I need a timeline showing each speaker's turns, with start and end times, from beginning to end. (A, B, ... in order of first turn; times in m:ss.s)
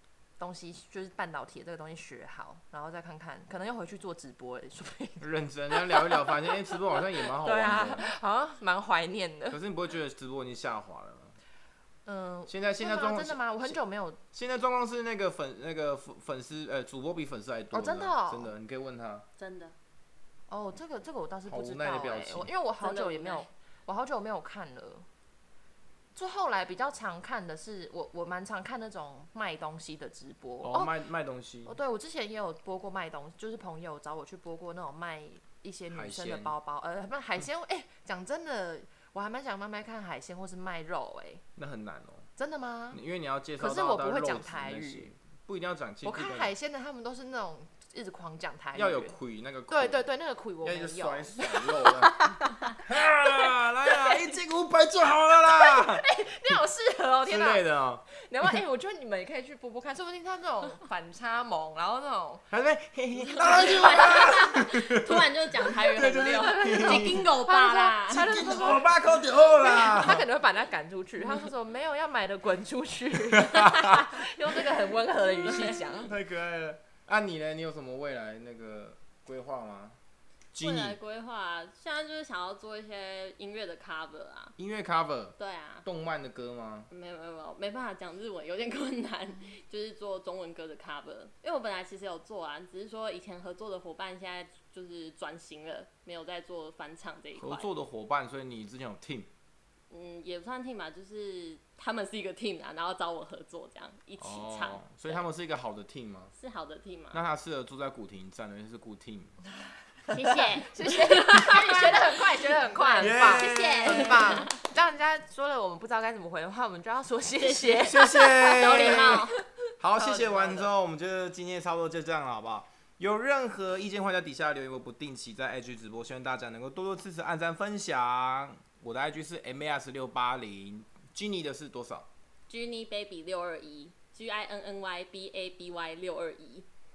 0:00.4-0:09.6 A
0:05.2-0:08.1 B
0:09.5-0:11.3 B
0:12.0-0:14.2 A
0:12.5-0:13.8 B
0:14.3-0:19.2 B
0:17.7-0:18.5 A
0:19.4-0:19.7 C
0:20.5-0:25.1 A
0:21.5-0:22.5 B
0:22.8-0:23.5 C
0:26.1-0:30.9 A
0:30.6-0:31.8 B
0:31.6-0:41.4 A
0:35.9-0:36.5 B
0:41.6-0:42.3 B
0:42.4-0:43.0 A
0:42.9-0:46.5 B
0:43.6-0:45.1 A
0:46.0-0:49.2 A
0:48.7-0:50.1 B
0:49.7-0:54.3 A
0:50.6-0:56.0 B
0:55.4-1:02.4 A
0:57.2-0:58.0 B
1:02.5-1:07.3 B
1:03.3-1:08.3 C
1:06.4-1:16.1 A
1:08.1-1:10.2 B
1:13.3-1:13.6 B
1:15.4-1:15.8 C
1:15.5-1:20.0 B
1:20.5-1:21.0 B
1:20.6-1:24.5 C
1:24.6-1:26.9 B
1:25.4-1:25.8 C
1:26.9-1:37.7 C
1:37.4-1:39.3 B
1:39.9-1:45.2 C
1:44.2-1:46.3 B
1:46.4-1:47.2 C
1:47.1-1:49.3 B
1:50.1-1:54.5 C
1:50.1-1:59.3 A
1:53.0-1:54.3 B
1:57.4-1:59.4 C
1:57.8-1:59.3 B
1:59.8-2:12.1 B
1:59.9-2:00.7 A
2:12.5-2:16.6 C